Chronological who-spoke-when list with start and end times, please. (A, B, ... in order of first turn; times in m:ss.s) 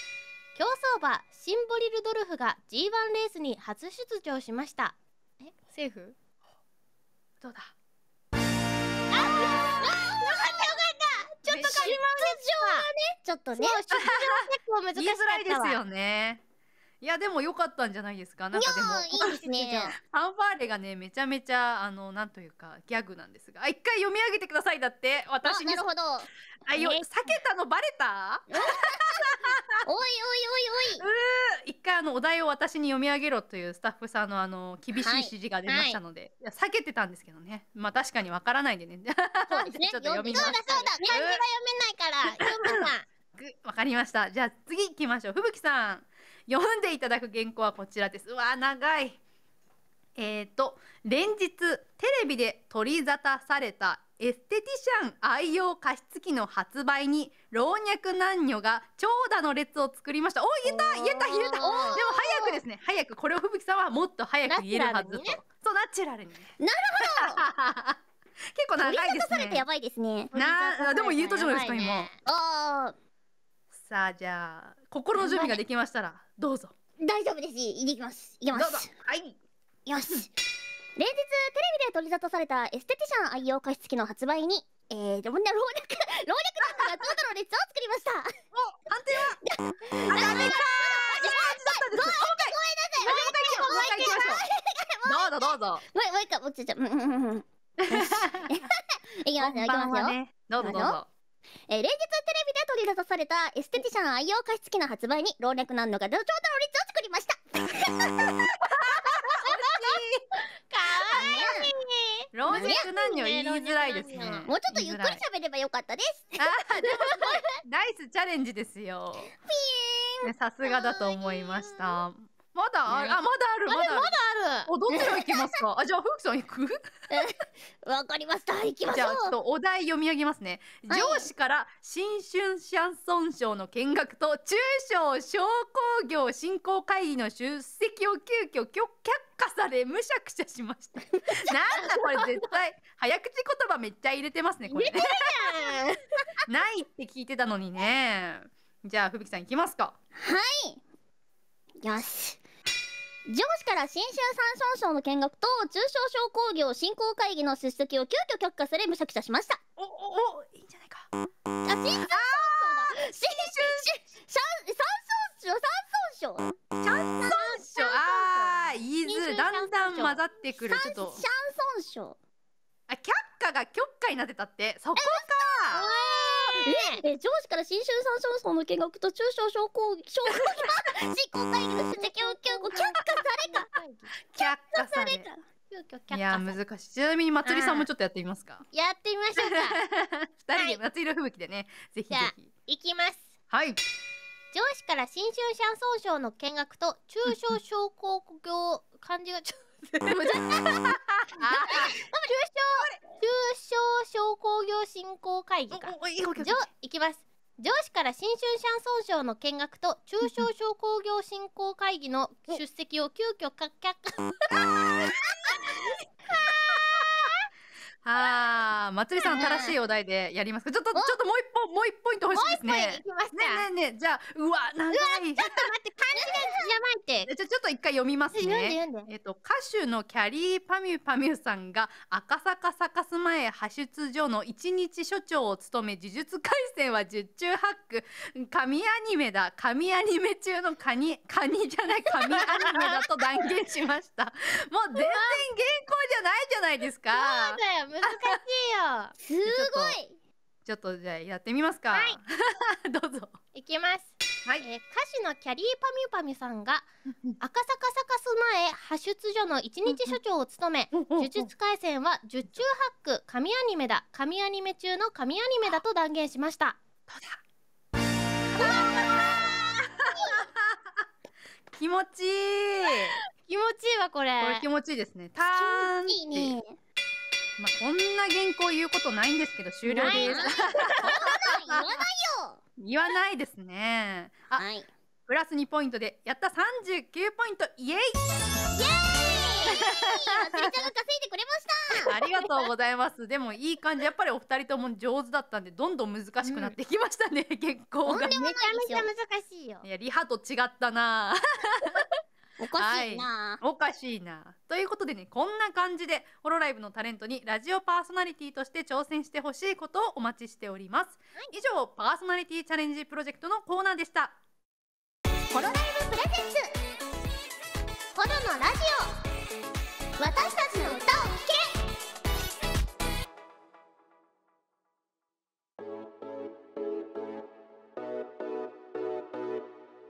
0:00.6-0:06.2 A
0:07.4-0:07.7 B
0:09.1-0:12.9 A
0:09.4-0:10.8 C
0:11.5-0:13.8 C
0:11.5-0:12.0 B
0:13.6-0:15.8 A
0:13.9-0:16.4 B
0:17.0-0:19.4 B
0:18.5-0:20.0 C
0:19.1-0:20.0 A
0:20.0-0:25.9 B
0:25.4-0:26.3 C
0:26.6-0:29.8 B
0:26.7-0:27.3 A
0:28.5-0:29.3 C
0:29.8-0:31.1 C
0:31.0-0:41.4 B
0:34.9-0:35.3 C
0:35.7-0:36.0 A
0:39.5-0:41.1 C
0:40.3-0:43.1 A
0:42.3-0:49.2 B
0:50.2-1:08.0 B
1:00.7-1:02.0 A
1:01.6-1:02.6 C
1:04.5-1:05.4 A
1:06.6-1:07.4 C
1:08.6-1:09.6 B
1:08.8-1:10.3 C
1:10.3-1:12.2 A
1:10.4-1:12.1 B
1:12.2-1:12.9 C
1:13.7-1:16.7 B
1:15.2-1:15.6 C
1:17.0-1:18.9 C
1:18.5-1:19.4 B
1:19.9-1:20.3 C
1:21.0-1:28.3 C
1:26.6-1:26.9 B
1:28.5-1:29.4 B
1:29.4-1:41.0 C
1:30.1-1:34.4 B
1:35.1-1:35.8 B
1:37.8-1:38.6 B
1:39.4-1:41.1 B
1:41.7-1:48.3 C
1:48.0-1:50.2 B
1:49.4-1:50.0 A
1:50.7-1:54.5 A
1:51.1-1:51.7 C
1:52.3-1:55.2 B
1:52.5-1:52.9 C
1:54.5-1:56.5 C
1:56.4-1:59.3 B
1:59.4-2:00.3 C
2:00.2-2:04.2 B
2:00.8-2:02.0 A
2:02.9-2:04.7 A
2:04.7-2:06.8 B
2:04.9-2:05.5 C
2:07.1-2:09.4 C
2:08.9-2:25.5 B
2:10.9-2:11.3 C
2:21.9-2:22.2 A
2:24.7-2:26.4 A
2:26.5-2:30.0 B
2:30.2-2:30.8 C
2:31.8-2:32.4 C
2:33.3-2:39.6 C
2:39.8-2:41.1 B
2:41.6-2:47.5 C
2:42.0-2:43.9 B
2:46.9-2:51.2 B
2:47.3-2:50.2 A
2:50.6-2:52.2 C
2:52.9-2:55.9 B
2:55.0-3:03.7 C
2:55.7-2:57.0 A
3:02.0-3:04.1 A
3:04.3-3:05.3 B
3:04.4-3:05.4 C
3:05.7-3:06.6 A
3:06.1-3:08.6 B
3:07.4-3:07.9 A
3:08.7-3:09.8 A
3:09.4-3:12.5 B
3:10.6-3:10.8 A
3:12.1-3:13.3 A
3:13.5-3:13.8 B
3:14.5-3:20.6 A
3:17.3-3:17.5 B
3:20.0-3:22.0 B
3:21.4-3:34.4 A
3:25.7-3:26.7 B
3:34.5-3:35.9 B
3:35.5-3:37.4 A
3:36.7-3:37.0 B
3:38.0-3:45.7 B
3:39.2-3:39.8 C
3:42.3-3:43.7 A
3:44.9-3:47.3 A
3:46.2-3:46.7 C
3:47.3-4:08.4 B
3:48.3-3:49.1 A
4:02.1-4:03.2 A
4:05.0-4:05.4 A
4:07.1-4:09.2 A
4:09.2-4:10.2 C
4:09.4-4:10.0 B
4:10.6-4:13.4 B
4:13.6-4:16.9 A
4:17.4-4:26.8 A
4:19.9-4:20.2 B
4:20.9-4:21.5 B
4:27.1-4:27.4 B
4:28.6-4:30.8 B
4:28.6-4:29.6 C
4:31.7-4:33.2 B
4:33.4-4:34.6 A
4:34.4-4:36.6 B
4:35.4-4:36.7 C
4:37.6-4:42.0 B
4:39.9-4:42.6 C
4:40.0-4:41.0 A
4:42.8-4:44.6 B
4:44.6-4:44.9 C
4:45.3-4:48.2 B
4:48.8-4:52.1 C
4:49.7-4:50.7 B
4:52.0-4:58.4 B
4:56.4-4:56.8 A
4:58.0-4:59.1 C
4:58.3-4:59.9 A
4:59.8-5:02.1 B
5:02.6-5:03.6 C
5:02.8-5:14.4 B
5:15.5-5:16.8 C
5:18.1-5:19.2 A
5:20.2-5:21.8 C